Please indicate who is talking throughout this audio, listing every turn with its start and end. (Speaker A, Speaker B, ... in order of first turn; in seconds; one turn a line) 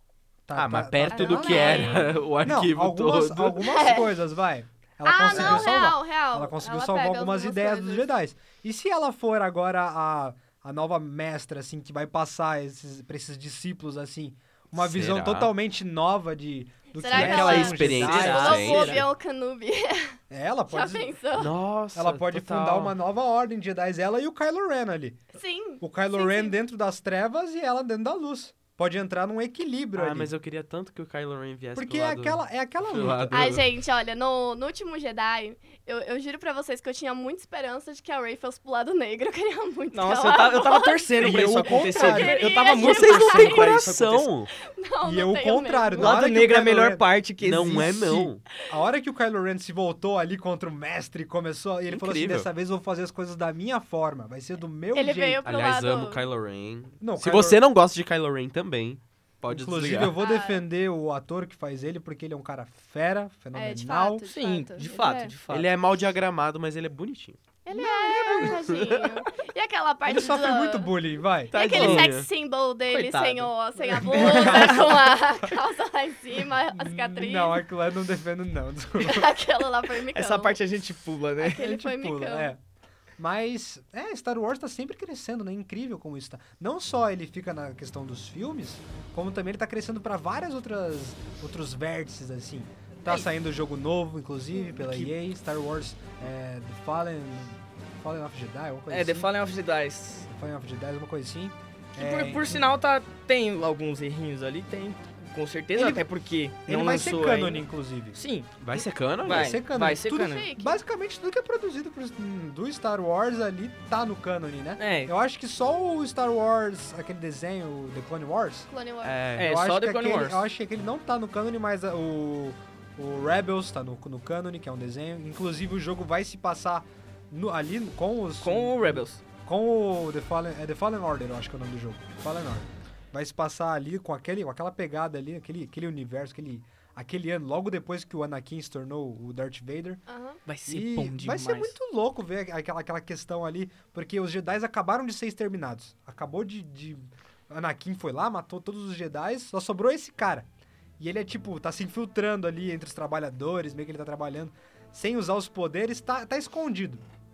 Speaker A: 0.5-18.7
Speaker B: 0.6-3.7
Speaker C: 1.1-2.1
Speaker C: 3.7-4.1
Speaker C: 5.0-8.1
Speaker B: 5.3-5.7
Speaker B: 14.7-15.5
Speaker C: 16.9-20.2
Speaker B: 17.1-19.1
Speaker D: 17.5-19.0
Speaker A: 20.3-21.1
Speaker C: 20.7-21.5
Speaker B: 21.4-22.9
Speaker A: 21.9-25.2
Speaker C: 25.3-26.6
Speaker A: 25.8-30.3
Speaker B: 29.9-33.6
Speaker A: 31.8-33.6
Speaker C: 33.3-43.8
Speaker D: 39.9-44.3
Speaker A: 41.2-42.7
Speaker B: 42.7-44.5
Speaker C: 44.7-46.2
Speaker A: 45.0-47.0
Speaker D: 46.0-48.3
Speaker B: 47.4-48.4
Speaker A: 48.7-55.5
Speaker B: 51.9-52.5
Speaker C: 54.9-56.2
Speaker B: 55.5-60.2
Speaker A: 57.0-57.6
Speaker A: 59.5-64.3
Speaker C: 60.2-60.6
Speaker C: 63.5-65.3
Speaker D: 64.3-65.7
Speaker B: 65.5-67.4
Speaker C: 67.7-70.9
Speaker A: 67.7-68.6
Speaker B: 68.4-68.9
Speaker A: 70.0-71.6
Speaker C: 71.5-77.6
Speaker B: 71.5-72.3
Speaker D: 71.8-72.1
Speaker D: 72.9-75.0
Speaker A: 73.9-75.5
Speaker A: 76.7-79.3
Speaker C: 79.0-80.6
Speaker D: 80.1-81.6
Speaker C: 81.4-82.5
Speaker A: 81.5-82.6
Speaker A: 83.2-99.3
Speaker D: 94.7-95.1
Speaker D: 98.9-100.3
Speaker A: 100.3-102.7
Speaker D: 102.0-108.5
Speaker A: 105.8-106.1
Speaker A: 106.7-108.2
Speaker B: 108.6-109.6
Speaker A: 108.7-118.7
Speaker D: 109.2-110.5
Speaker C: 110.1-110.8
Speaker D: 114.8-115.1
Speaker C: 118.7-119.2
Speaker B: 119.0-119.5
Speaker D: 119.4-120.4
Speaker A: 119.4-140.0
Speaker D: 128.4-129.2
Speaker C: 140.1-140.4
Speaker D: 140.5-141.8
Speaker A: 140.7-150.5
Speaker A: 151.0-157.1